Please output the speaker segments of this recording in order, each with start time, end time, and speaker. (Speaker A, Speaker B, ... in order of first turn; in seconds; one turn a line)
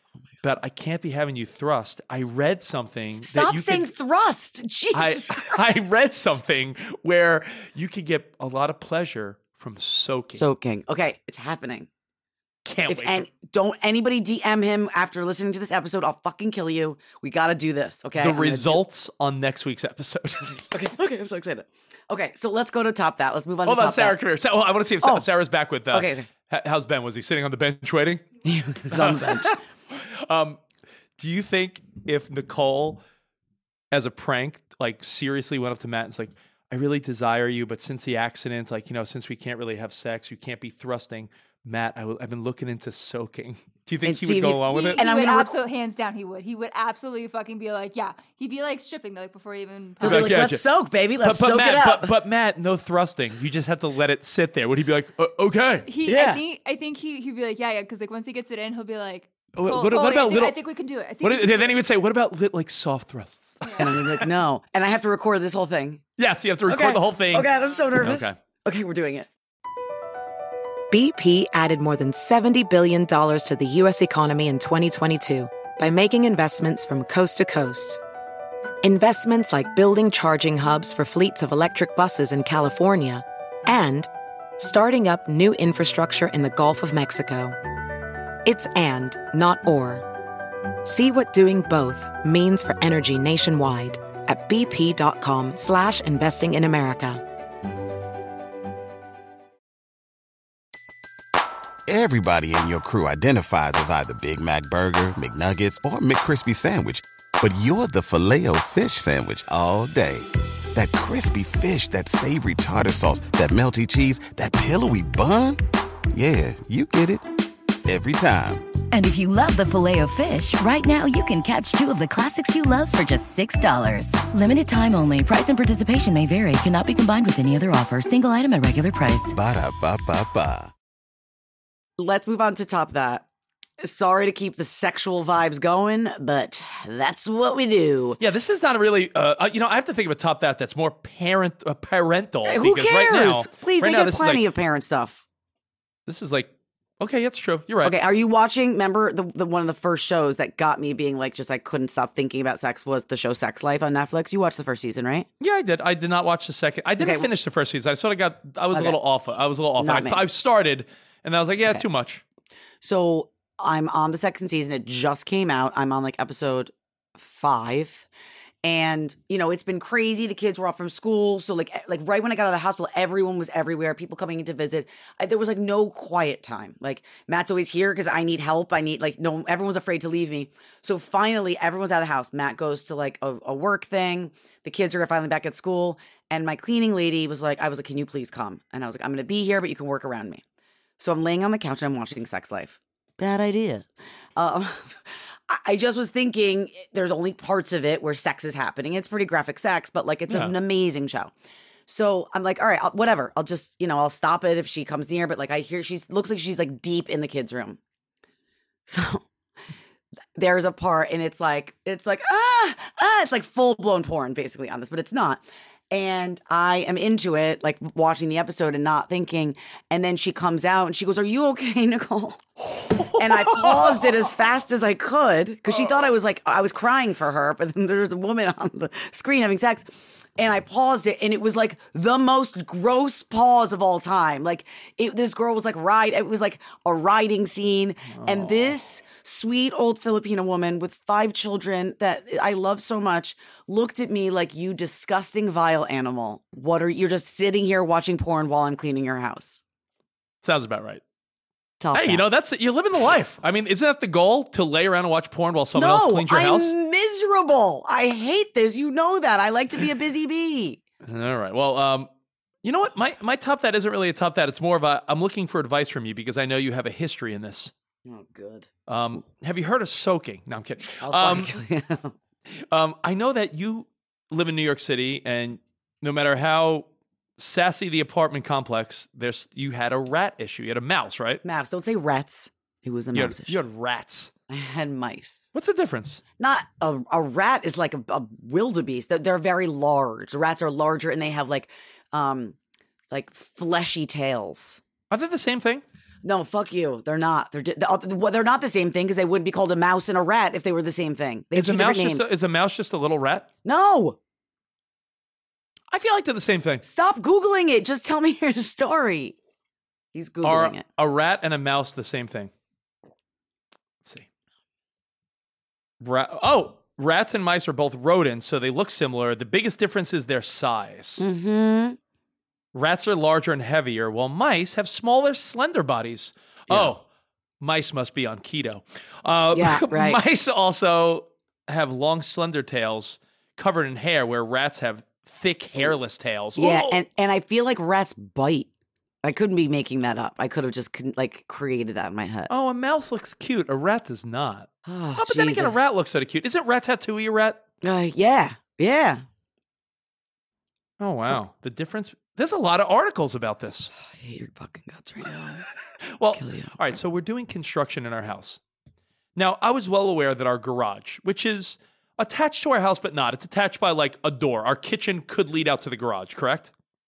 Speaker A: 0.4-3.9
Speaker B: 3.2-5.6
Speaker A: 4.9-10.4
Speaker B: 10.3-11.9
Speaker A: 12.7-13.3
Speaker B: 12.9-18.8
Speaker A: 18.2-20.6
Speaker B: 20.7-24.2
Speaker A: 23.6-28.2
Speaker B: 25.9-26.3
Speaker B: 28.4-29.6
Speaker A: 28.9-30.6
Speaker A: 31.2-33.0
Speaker A: 33.9-45.0
Speaker B: 44.0-45.6
Speaker C: 44.7-50.4
Speaker B: 50.0-52.1
Speaker A: 50.0-50.6
Speaker A: 51.2-55.9
Speaker C: 55.9-61.8
Speaker B: 56.0-56.4
Speaker A: 59.5-60.6
Speaker A: 61.2-64.3
Speaker B: 63.8-66.0
Speaker A: 66.2-68.3
Speaker B: 66.7-69.3
Speaker D: 70.9-78.0
Speaker D: 78.8-87.5
Speaker D: 88.4-90.0
Speaker D: 90.8-97.2
Speaker E: 101.9-115.6
Speaker E: 116.1-117.2
Speaker E: 117.8-118.7
Speaker F: 118.9-129.3
Speaker E: 129.3-130.7
Speaker B: 132.0-133.2
Speaker B: 133.8-138.2
Speaker A: 138.2-144.4
Speaker B: 142.5-145.2
Speaker A: 146.1-147.9
Speaker B: 147.8-155.3
Speaker A: 155.4-162.2
Speaker B: 157.0-157.3
Speaker B: 159.8-160.2
Speaker B: 162.8-168.1
Speaker B: 168.6-190.4
Speaker B: 191.0-201.3
Speaker A: 200.3-200.5
Speaker B: 201.9-207.8
Speaker B: 208.9-209.2
Speaker B: 210.3-222.4
Speaker A: 222.7-224.2
Speaker B: 223.1-249.6
Speaker A: 238.1-238.7
Speaker A: 250.4-251.0
Speaker B: 251.8-252.2
Speaker A: 251.9-256.7
Speaker B: 255.7-260.8
Speaker A: 261.0-262.1
Speaker A: 262.6-267.7
Speaker B: 268.1-268.7
Speaker A: 268.9-271.5
Speaker B: 271.0-272.1
Speaker A: 272.7-276.9
Speaker A: 277.4-281.4
Speaker B: 281.4-283.6
Speaker A: 283.1-284.3
Speaker B: 284.5-285.5
Speaker A: 285.5-286.2
Speaker B: 286.4-292.6
Speaker B: 293.1-294.8
Speaker A: 295.1-295.8
Speaker B: 296.2-302.3
Speaker A: 301.5-303.5
Speaker B: 303.6-304.2
Speaker A: 305.9-306.8
Speaker B: 306.8-309.4
Speaker B: 310.1-310.8
Speaker A: 310.4-312.5
Speaker A: 316.0-321.2
Speaker B: 321.2-322.0
Speaker A: 322.7-327.0
Speaker A: 327.6-337.0
Speaker B: 329.5-330.2
Speaker B: 336.6-338.7
Speaker B: 339.2-342.5
Speaker A: 342.5-347.6
Speaker B: 344.9-345.9
Speaker B: 347.8-349.2
Speaker A: 351.0-353.9
Speaker B: 354.0-355.6
Speaker A: 356.1-358.6
Speaker B: 356.3-356.8
Speaker A: 359.4-366.7